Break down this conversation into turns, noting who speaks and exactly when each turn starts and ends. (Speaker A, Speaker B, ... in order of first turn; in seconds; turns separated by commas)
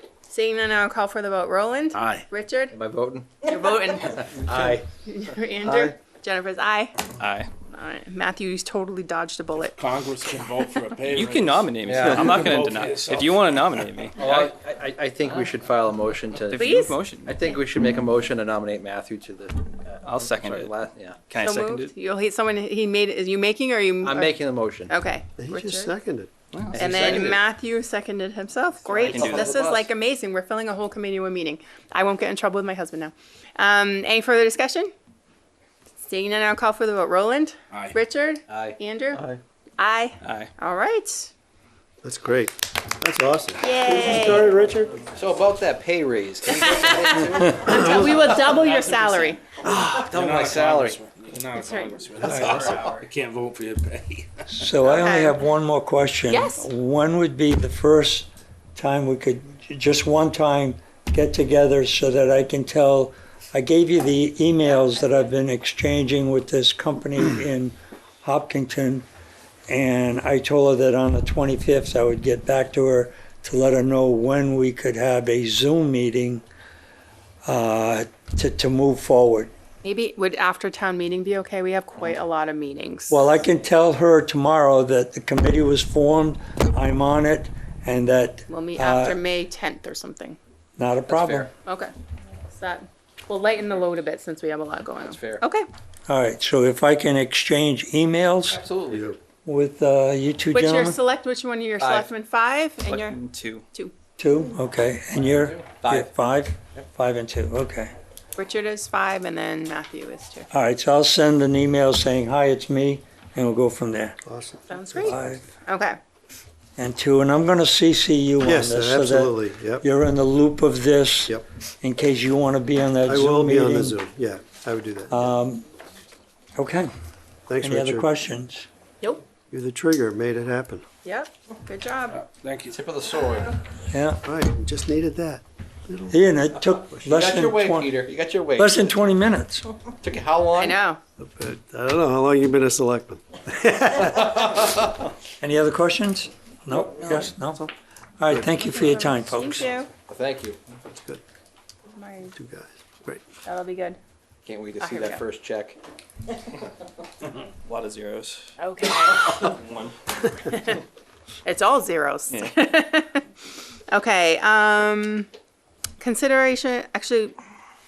Speaker A: 0.3-2.8, Speaker B: 1.9-2.2, Speaker C: 2.7-3.6, Speaker A: 3.4-7.1, Speaker C: 4.1-4.8, Speaker D: 7.2-7.5, Speaker A: 7.7-9.8, Speaker B: 9.6-13.6, Speaker D: 11.1-14.2, Speaker C: 11.8-12.3, Speaker C: 14.2-21.3, Speaker B: 14.2-14.5, Speaker D: 16.5-17.3, Speaker A: 16.5-17.0, Speaker D: 20.0-21.9, Speaker A: 21.4-25.9, Speaker C: 24.0-24.9, Speaker E: 25.4-26.3, Speaker D: 26.5-26.8, Speaker C: 26.7-27.4, Speaker A: 26.7-34.9, Speaker C: 28.9-29.9, Speaker D: 29.1-29.6, Speaker A: 36.0-39.3, Speaker C: 38.5-38.8, Speaker A: 39.8-41.3, Speaker D: 40.2-40.5, Speaker E: 42.0-45.0, Speaker A: 43.6-44.5, Speaker C: 45.1-47.9, Speaker A: 46.5-49.5, Speaker E: 47.6-48.0, Speaker B: 47.8-49.3, Speaker C: 49.5-51.0, Speaker B: 50.0-54.4, Speaker A: 51.6-52.0, Speaker E: 52.2-52.8, Speaker F: 52.2-52.6, Speaker C: 52.4-53.0, Speaker F: 54.5-69.1, Speaker A: 54.8-55.4, Speaker A: 56.3-56.6, Speaker F: 69.7-76.4, Speaker F: 77.4-79.5, Speaker A: 79.8-83.3, Speaker F: 83.1-89.2, Speaker A: 88.5-90.4, Speaker F: 90.8-91.5, Speaker C: 91.1-91.5, Speaker A: 91.6-91.9, Speaker A: 92.5-95.7, Speaker C: 95.0-95.4, Speaker F: 96.1-98.6, Speaker C: 98.5-99.1, Speaker E: 98.9-99.2, Speaker F: 99.4-101.0, Speaker A: 100.5-103.2, Speaker C: 101.8-102.1, Speaker D: 102.8-103.6, Speaker F: 104.2-107.9, Speaker C: 105.1-105.8, Speaker A: 108.3-110.5, Speaker F: 110.5-114.2, Speaker E: 114.2-115.4, Speaker A: 114.7-116.0, Speaker F: 115.0-115.4, Speaker F: 116.8-124.0, Speaker E: 118.4-119.8, Speaker E: 123.0-125.3, Speaker F: 125.1-125.6, Speaker F: 126.5-126.9, Speaker E: 127.5-128.1, Speaker F: 127.6-128.7, Speaker E: 129.5-130.8, Speaker A: 131.0-132.2, Speaker B: 132.1-132.8, Speaker C: 132.7-133.5, Speaker F: 133.9-134.2, Speaker E: 134.2-136.2, Speaker F: 136.1-137.9, Speaker C: 137.0-139.0, Speaker F: 138.6-139.7, Speaker C: 140.0-140.8, Speaker A: 140.6-141.0, Speaker E: 141.2-144.7, Speaker F: 145.4-147.6, Speaker E: 146.7-147.7, Speaker F: 148.2-149.7, Speaker A: 148.5-149.9, Speaker C: 150.1-150.6, Speaker A: 151.9-152.3, Speaker E: 152.3-153.2, Speaker A: 153.4-154.0, Speaker C: 154.4-155.8, Speaker A: 154.8-155.2, Speaker D: 157.6-159.9, Speaker A: 158.6-159.3, Speaker A: 160.4-160.8, Speaker A: 161.4-163.2, Speaker A: 163.9-165.3, Speaker A: 166.0-167.3